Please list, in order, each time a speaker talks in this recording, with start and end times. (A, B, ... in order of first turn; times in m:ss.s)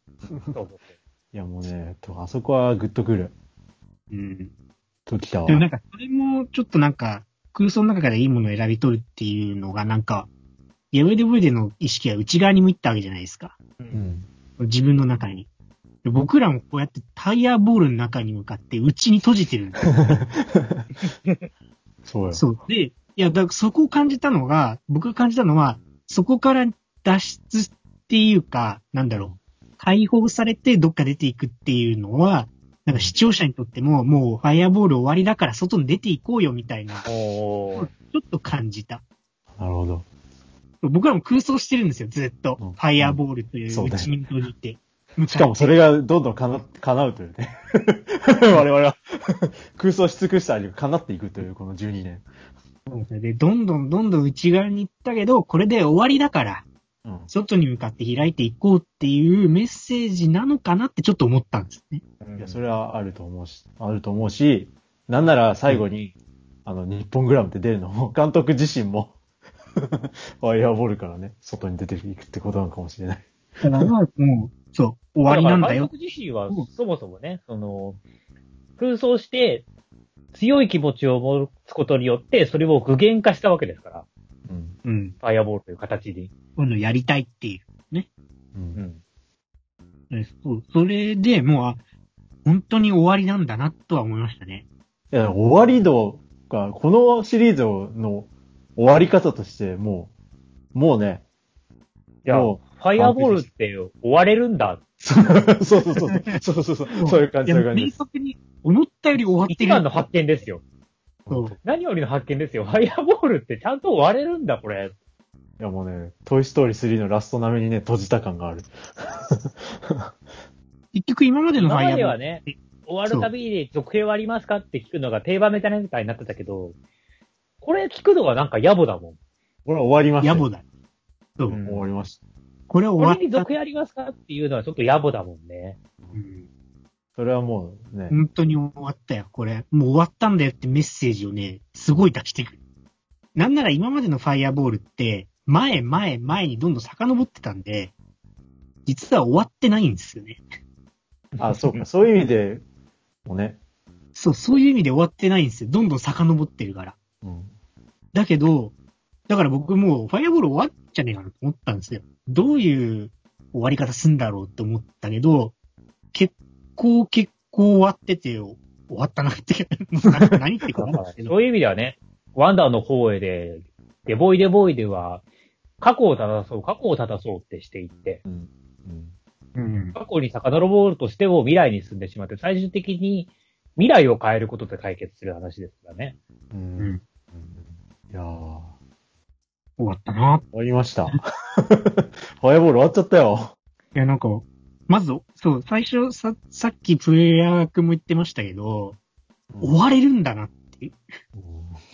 0:00.3-0:00.5 A
0:00.5-0:00.9 B
0:01.3-0:03.3 A
0:04.1-0:04.5 C
0:05.1-0:05.6 A
0:05.5-0:10.3 C
0:10.9-0:13.6 C
0:13.8-0:14.0 B
0:13.9-0:14.3 A
0:14.6-0:15.5 C
0:16.0-0:20.0 C
0:19.9-0:20.9 A
0:21.0-0:21.5 B
0:22.0-0:22.4 A
0:22.3-0:37.1 C
0:37.0-0:37.9 B
0:37.8-0:39.0 C
0:39.6-0:40.0 A
0:40.8-0:45.7 C
0:42.6-0:44.1 A
0:45.3-0:52.2 A
0:52.9-0:56.7 C
0:57.0-0:57.3 A
0:57.3-1:02.0 C
1:02.2-1:02.6 B
1:02.4-1:09.2 A
1:09.8-1:13.9 A
1:13.6-1:15.9 C
1:15.2-1:18.0 B
1:18.8-1:19.6 B
1:20.3-1:24.0 B
1:24.4-1:24.8 A
1:24.8-1:25.1 C
1:25.2-1:26.3 B
1:26.6-1:28.1 C
1:28.5-1:28.8 A
1:28.7-1:29.0 B
1:30.1-1:31.8 C
1:32.4-1:34.6 C
1:35.1-1:40.1 A
1:40.7-1:41.2 A
1:42.2-1:44.8 B
1:42.3-1:43.5 A
1:45.0-1:47.9 A
1:46.9-1:50.0 C
1:49.5-1:50.6 B
1:51.2-1:51.6 A
1:51.3-1:51.6 C
1:51.6-1:54.9 B
1:55.6-2:00.1 A
2:00.9-2:02.6 C
2:01.6-2:06.8 B
2:07.6-2:09.2 B
2:09.6-2:10.4 A
2:10.2-2:10.6 C
2:11.5-2:11.8 B
2:11.6-2:12.2 A
2:12.7-2:13.5 C
2:13.0-2:15.8 B
2:16.1-2:16.4 C
2:17.2-2:18.2 A
2:18.1-2:22.6 C
2:23.3-2:27.9 C
2:28.8-2:30.4 C
2:31.4-2:31.8 B
2:31.4-2:32.6 A
2:33.2-2:33.6 A
2:34.1-2:37.0 C
2:37.2-2:37.5 A
2:38.1-2:38.7 C
2:39.3-2:45.5 C
2:46.1-2:51.3 C
2:50.9-2:55.2 B
2:55.8-2:58.2 B
2:58.2-2:59.1 A
2:59.5-3:00.0 C
3:00.0-3:06.2 B
3:06.5-3:08.7 A
3:09.8-3:10.4 C
3:10.5-3:13.5 A
3:13.9-3:19.0 C
3:19.5-3:19.8 A
3:19.6-3:21.0 C
3:21.3-3:21.8 A